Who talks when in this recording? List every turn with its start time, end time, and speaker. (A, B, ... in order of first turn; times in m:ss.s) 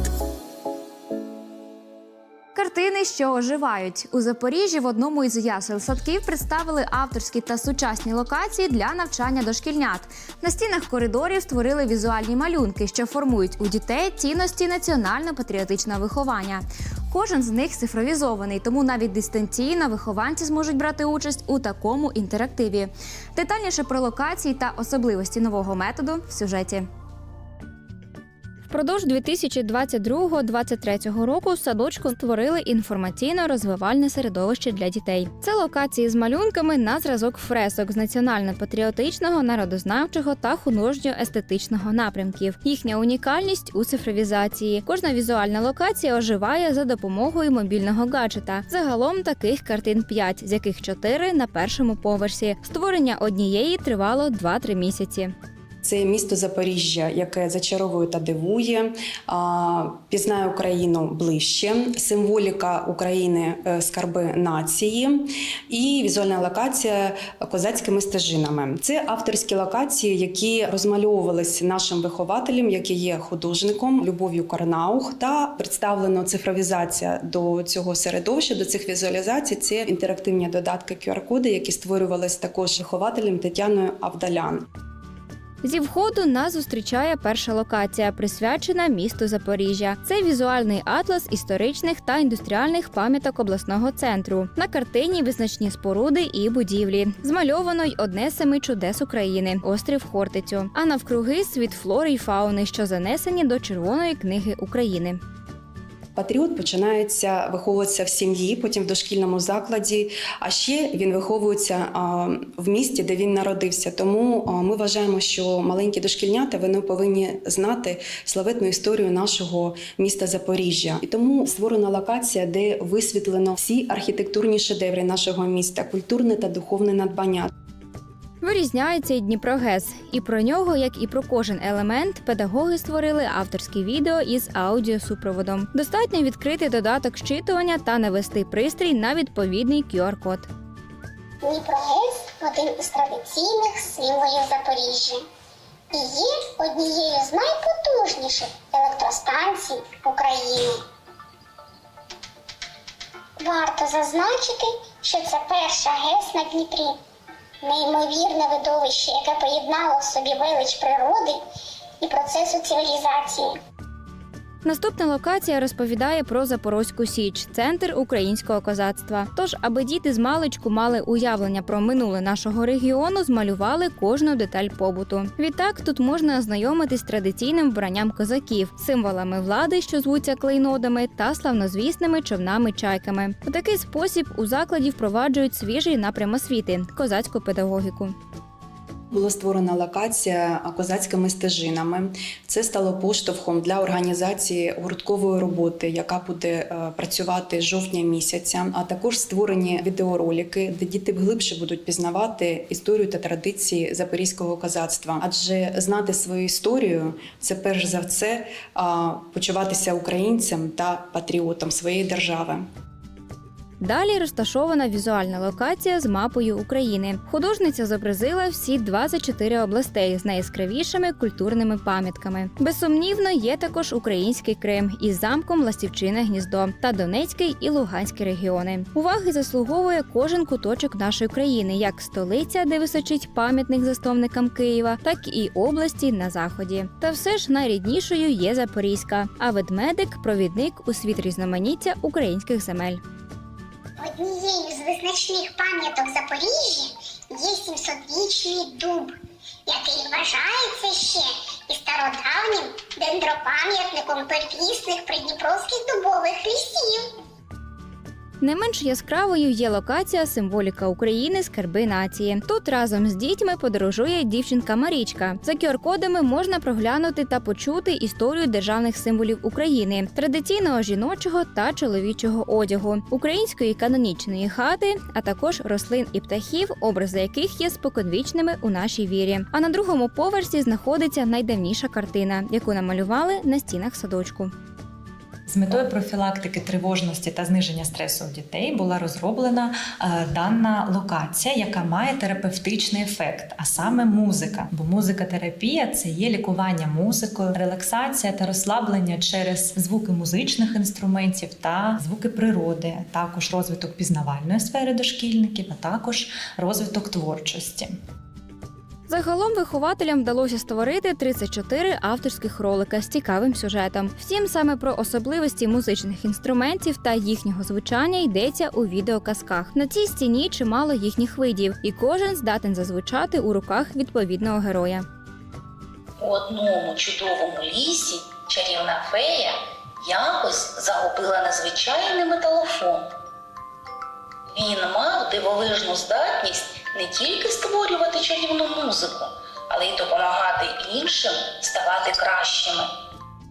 0:02.6-0:26.9 A
0:28.7-0:55.3 A
0:55.8-1:24.7 B
1:25.6-1:45.2 A
1:46.2-2:07.5 B
2:08.4-2:20.5 A
2:21.4-2:25.2 C
2:25.9-2:30.8 C
2:33.4-2:37.0 C
2:37.6-2:41.4 C
2:42.0-2:43.5 C
2:44.6-3:08.2 A
3:09.1-3:32.7 B
3:33.8-4:03.0 A
4:04.0-4:09.1 C
4:09.7-4:17.0 C
4:18.4-4:44.5 A
4:45.5-5:08.0 D
5:09.1-5:25.1 A
5:26.2-5:33.1 E
5:34.5-5:42.9 E